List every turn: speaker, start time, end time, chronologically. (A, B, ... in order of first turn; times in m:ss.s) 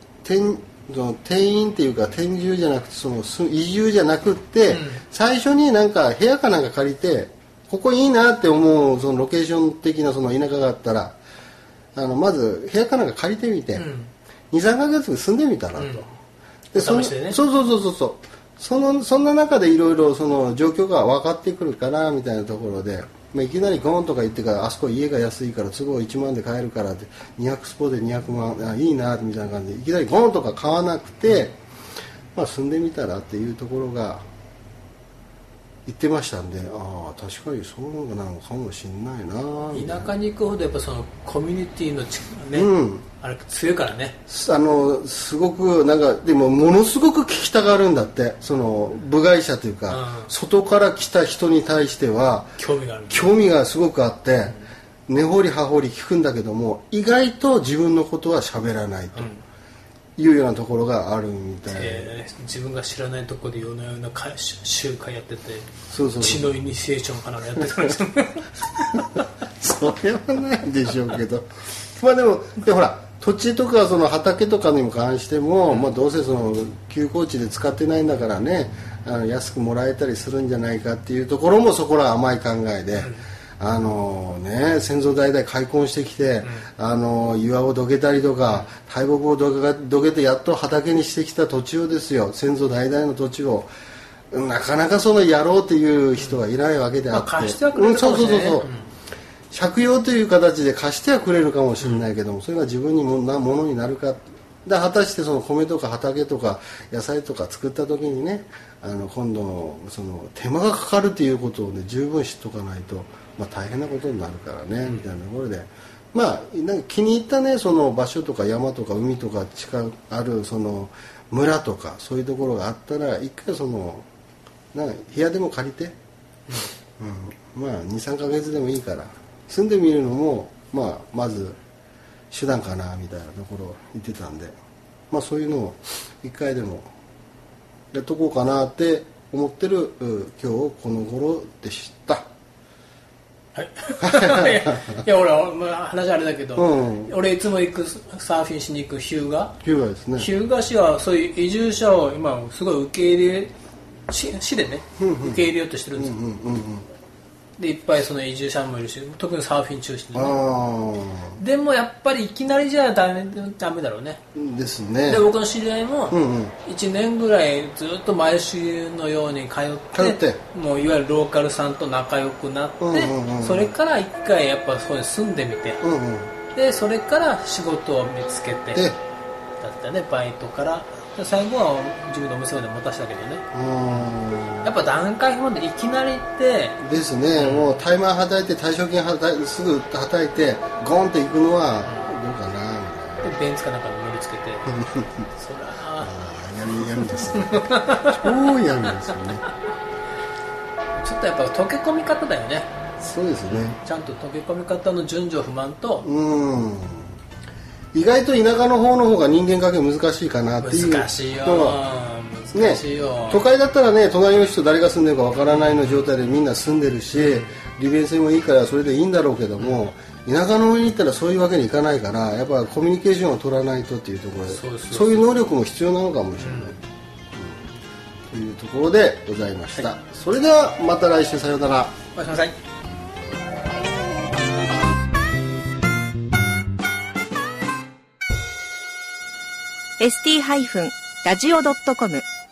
0:00.2-0:11.2 A
0:04.7-0:05.0 B
0:12.0-0:13.9 A
0:13.8-0:14.1 B
0:14.5-0:16.1 A
0:15.8-0:16.1 B
0:16.7-0:31.6 A
0:16.8-0:17.4 B
0:32.4-0:34.2 A
0:35.9-0:40.1 A
0:39.7-0:44.2 B
0:42.5-0:43.1 A
0:44.3-0:52.6 A
0:49.9-0:50.3 B
0:52.6-0:53.4 B
0:53.1-0:59.3 A
0:59.2-0:59.4 B
1:00.2-1:02.2 A
1:01.7-1:09.2 B
1:05.9-1:06.5 A
1:09.4-1:33.7 A
1:23.0-1:23.2 B
1:34.3-1:38.7 A
1:37.1-1:38.9 B
1:39.5-2:04.1 A
1:54.8-1:55.1 B
2:04.7-2:06.0 A
2:07.0-2:11.6 A
2:12.3-2:14.6 A
2:15.1-2:16.9 A
2:17.9-2:22.3 A
2:23.6-2:29.6 B
2:24.0-2:25.0 A
2:26.6-2:27.2 A
2:29.6-2:30.3 A
2:30.2-2:33.5 B
2:34.1-2:36.2 B
2:35.0-2:36.9 A
2:37.6-2:40.4 B
2:40.1-2:41.4 A
2:41.4-2:44.2 B
2:44.3-2:45.3 A
2:45.1-2:55.8 B
2:46.1-2:46.6 A
2:49.9-2:50.4 A
2:52.8-2:53.7 A
2:55.8-2:56.3 A
2:56.5-2:58.9 B
2:59.6-3:04.1 B
3:03.5-3:04.7 A
3:04.6-3:06.8 B
3:06.8-3:13.3 A
3:07.4-3:07.8 B
3:11.9-3:12.1 B
3:13.2-3:14.8 B
3:14.7-3:15.3 A
3:15.3-3:16.1 B
3:16.0-3:19.4 A
3:17.1-3:18.5 B
3:21.0-3:22.7 B
3:23.0-3:23.8 A
3:23.5-3:26.1 B
3:26.0-3:27.2 A
3:27.9-3:31.8 A
3:30.6-3:33.4 B
3:32.5-3:46.8 A
3:35.5-3:36.0 B
3:37.2-3:37.5 B
3:44.5-3:45.2 B
3:46.4-3:46.8 B
3:47.4-3:47.6 A
3:48.3-3:52.0 A
3:52.2-3:52.6 B
4:00.0-4:02.2 C